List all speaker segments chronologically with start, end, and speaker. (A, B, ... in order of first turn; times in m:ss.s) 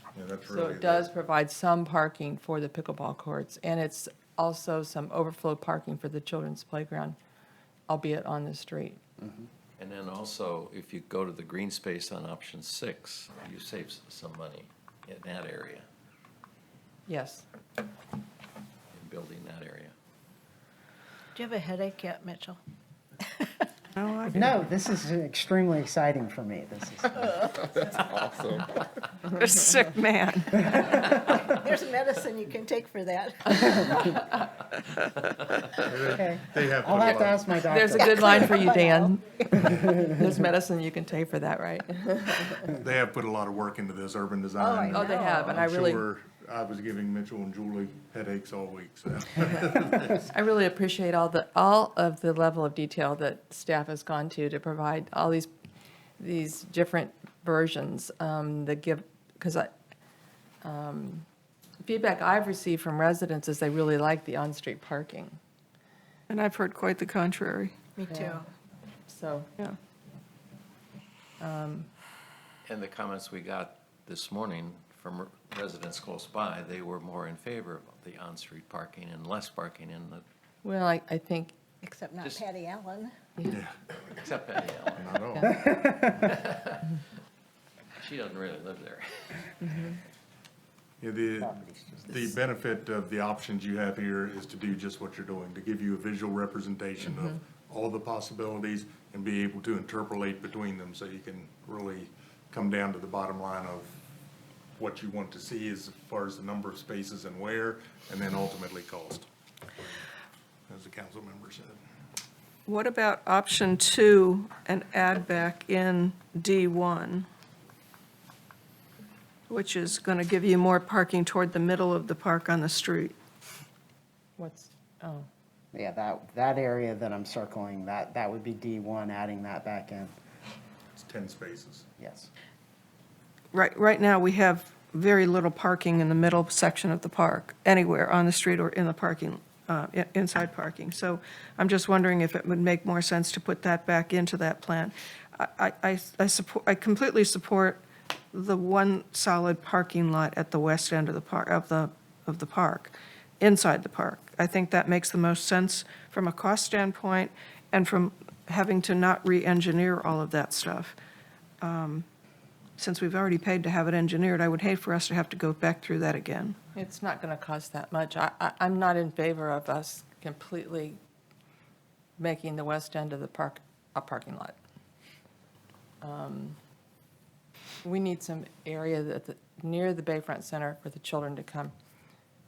0:00.1-0:01.1 A
0:00.5-0:07.2 B
0:07.9-0:09.0 B
0:09.8-0:15.9 C
0:17.1-0:17.4 B
0:18.9-0:19.9 C
0:21.3-0:22.6 D
0:24.0-0:24.5 E
0:24.3-0:27.5 F
0:27.5-0:28.6 D
0:29.2-0:30.7 E
0:30.7-0:31.0 F
0:31.3-0:34.2 D
0:35.8-0:37.4 A
0:36.1-0:38.5 F
0:37.7-0:42.7 B
0:38.0-0:39.2 D
0:39.8-0:40.1 F
0:42.7-0:50.3 A
0:44.6-0:45.6 D
0:44.9-0:46.0 B
0:50.2-0:55.5 B
0:56.2-0:59.7 B
1:00.6-1:01.2 B
1:01.8-1:05.4 B
1:06.3-1:07.8 E
1:08.0-1:08.4 D
1:08.1-1:08.4 B
1:09.1-1:09.5 B
1:11.4-1:11.9 B
1:12.6-1:20.2 C
1:20.6-1:21.5 B
1:21.8-1:23.2 D
1:23.4-1:24.1 A
1:24.1-1:25.1 C
1:24.9-1:25.6 A
1:25.4-1:26.3 F
1:25.9-1:26.9 C
1:28.0-1:29.5 C
1:29.6-1:30.0 B
1:31.0-1:44.0 A
1:31.4-1:32.3 F
1:44.8-1:49.3 A
1:50.7-1:51.8 A
1:52.7-1:57.3 E
1:59.5-2:03.1 E
2:04.4-2:05.3 B
2:05.7-2:10.1 F
2:10.9-2:11.9 A
2:12.0-2:12.3 F
2:13.5-2:27.8 E
2:28.3-2:41.0 E
2:41.6-2:42.1 E
2:42.8-2:46.6 E
2:46.8-2:51.0 B
2:52.2-2:54.6 B
2:56.0-2:56.6 B
2:57.8-3:01.7 B